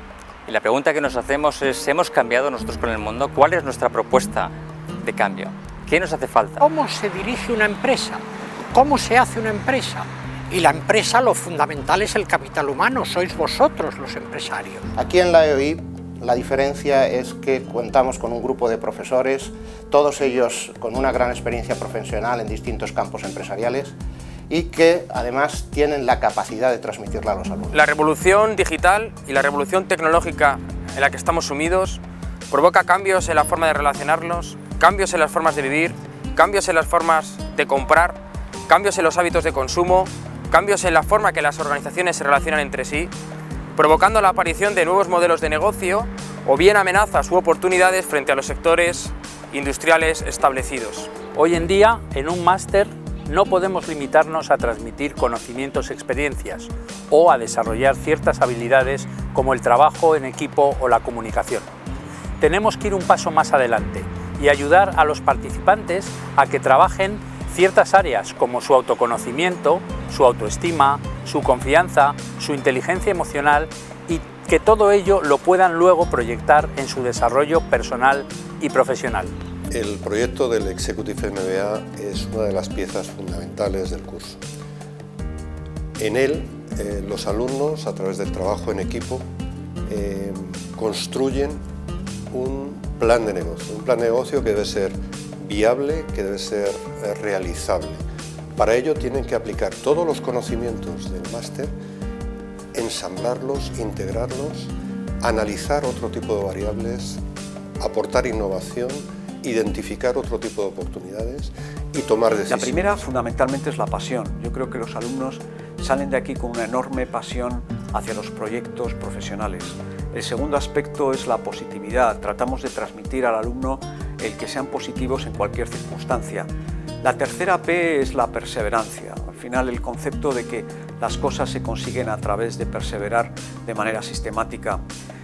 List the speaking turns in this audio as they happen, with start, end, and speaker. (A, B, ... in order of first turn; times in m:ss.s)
0:00.5-0:04.5 A
0:05.0-0:06.6 A
0:06.6-0:08.2 B
0:08.7-0:14.9 B
0:15.0-0:23.9 C
0:24.5-0:27.7 C
0:27.7-0:43.1 D
0:43.7-0:51.2 D
0:51.3-1:01.7 E
1:02.4-1:19.3 E
1:19.7-1:24.4 F
1:26.0-1:29.2 F
1:29.9-1:31.6 F
1:32.3-1:38.0 F
1:38.6-1:41.7 F
1:42.7-1:47.2 F
1:47.8-1:52.8 F
1:52.5-2:06.5 G
2:07.0-2:14.8 G